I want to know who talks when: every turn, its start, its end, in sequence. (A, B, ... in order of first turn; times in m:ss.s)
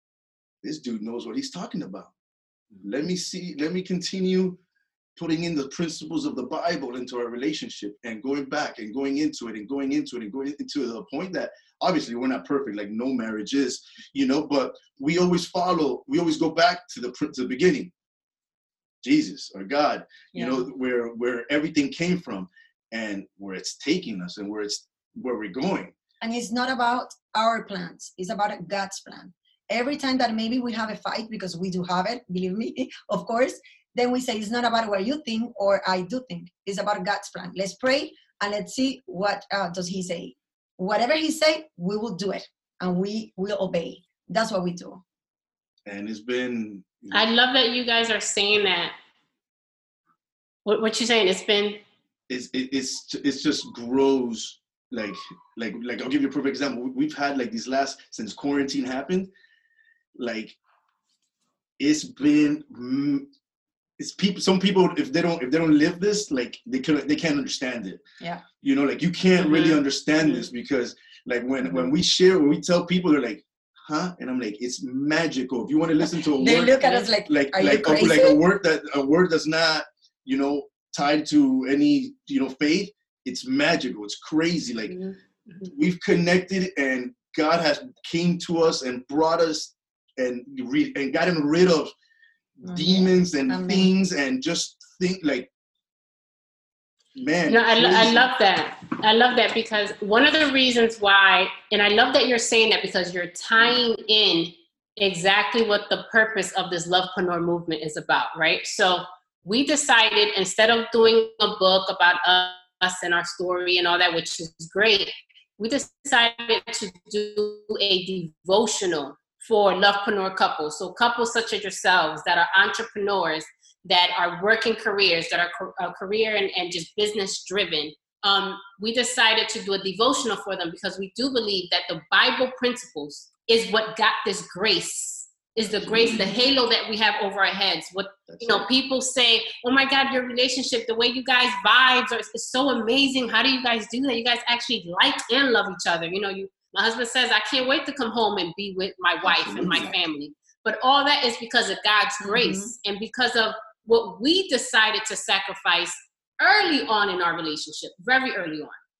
0:00.6-0:02.1 A
0:02.8-0:04.6 A
0:05.2-0:17.9 A
0:19.0-0:25.9 A
0:20.3-0:20.7 B
0:26.2-0:45.0 B
0:45.8-0:47.2 A
0:47.1-0:48.9 C
0:50.6-0:51.8 C
0:52.3-0:59.3 A
1:00.2-1:00.6 A
1:01.8-1:03.3 A
1:04.0-1:08.0 A
1:08.6-1:25.0 A
1:09.4-1:09.8 C
1:16.4-1:18.4 B
1:25.0-1:25.6 C
1:25.6-1:31.9 A
1:32.6-1:35.5 A
1:32.6-1:33.9 B
1:37.1-1:38.2 A
1:37.5-2:38.8 C
2:15.6-2:16.3 A
2:16.0-2:16.4 B
2:18.3-2:18.7 A
2:29.2-2:29.9 A
2:32.2-2:32.7 B